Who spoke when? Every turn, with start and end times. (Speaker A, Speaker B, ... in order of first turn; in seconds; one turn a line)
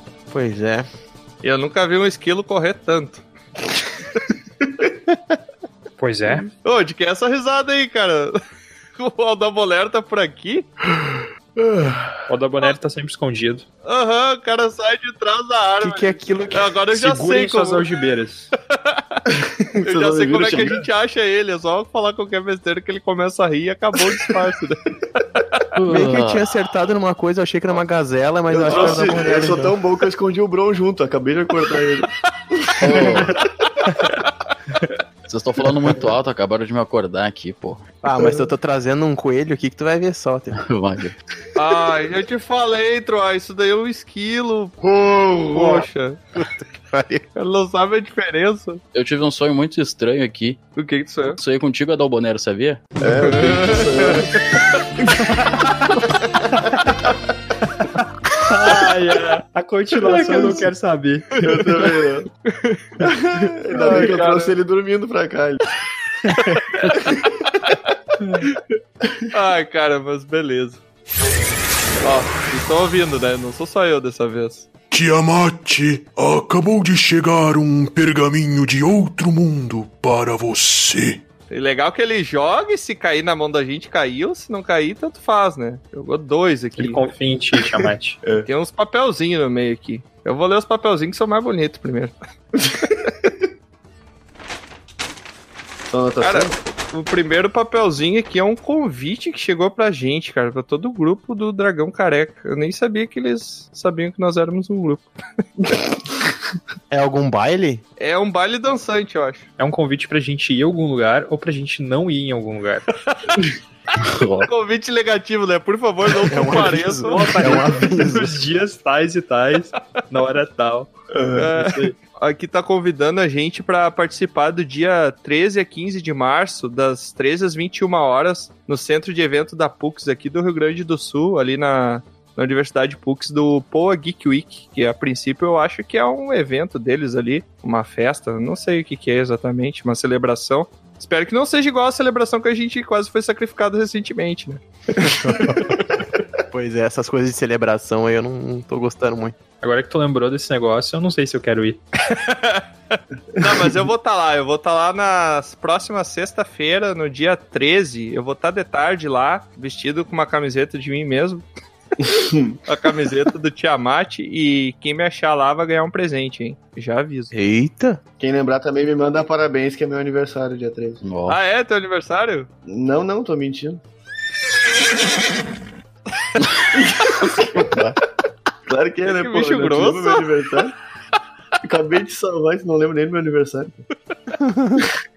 Speaker A: 0.3-0.8
Speaker B: 1.4-3.2
Speaker C: 6.0-6.4
Speaker B: 6.5-8.3
Speaker B: 8.9-10.7
Speaker D: 11.1-12.2
Speaker C: 12.3-13.7
Speaker B: 13.8-17.9
Speaker A: 15.8-16.8
Speaker C: 16.9-18.5
Speaker B: 18.7-19.2
Speaker D: 19.8-20.8
Speaker B: 19.8-25.6
Speaker A: 25.8-29.7
Speaker E: 25.9-26.3
Speaker D: 28.5-33.4
Speaker E: 35.3-37.8
Speaker A: 38.0-40.6
Speaker D: 38.2-38.5
Speaker E: 40.7-41.1
Speaker B: 41.5-44.7
Speaker D: 45.0-45.7
Speaker B: 45.5-46.2
Speaker A: 46.4-47.3
Speaker B: 47.3-48.8
Speaker E: 48.9-50.6
Speaker B: 50.7-51.4
Speaker E: 51.4-52.8
Speaker D: 53.0-54.3
Speaker B: 53.2-54.9
Speaker C: 58.5-61.3
Speaker D: 60.1-60.7
Speaker D: 61.4-62.2
Speaker B: 62.5-63.2
Speaker D: 63.4-65.6
Speaker B: 63.8-64.5
Speaker C: 66.3-66.6
Speaker B: 66.7-68.5
Speaker B: 69.3-70.8
Speaker B: 72.0-74.7
Speaker F: 74.9-81.2
Speaker B: 81.5-87.1
Speaker C: 86.8-88.2
Speaker D: 88.2-88.5
Speaker B: 88.4-92.1
Speaker D: 95.9-96.5
Speaker B: 96.2-105.1
Speaker A: 106.9-107.8
Speaker B: 108.0-109.5
Speaker C: 109.6-112.9
Speaker B: 113.0-113.3
Speaker B: 114.4-117.7
Speaker A: 116.3-118.4
Speaker C: 117.0-120.9
Speaker D: 121.1-121.6
Speaker B: 121.4-144.6
Speaker C: 121.6-122.0
Speaker A: 145.0-145.7
Speaker A: 146.5-149.3
Speaker C: 149.6-151.8
Speaker B: 152.1-161.4
Speaker D: 162.0-162.6
Speaker B: 162.7-167.3
Speaker A: 167.3-168.0
Speaker D: 168.2-171.1
Speaker B: 171.3-172.5
Speaker D: 172.7-173.8
Speaker D: 176.8-177.8
Speaker D: 178.7-180.7
Speaker B: 179.0-180.3
Speaker D: 181.6-183.8
Speaker A: 184.4-184.8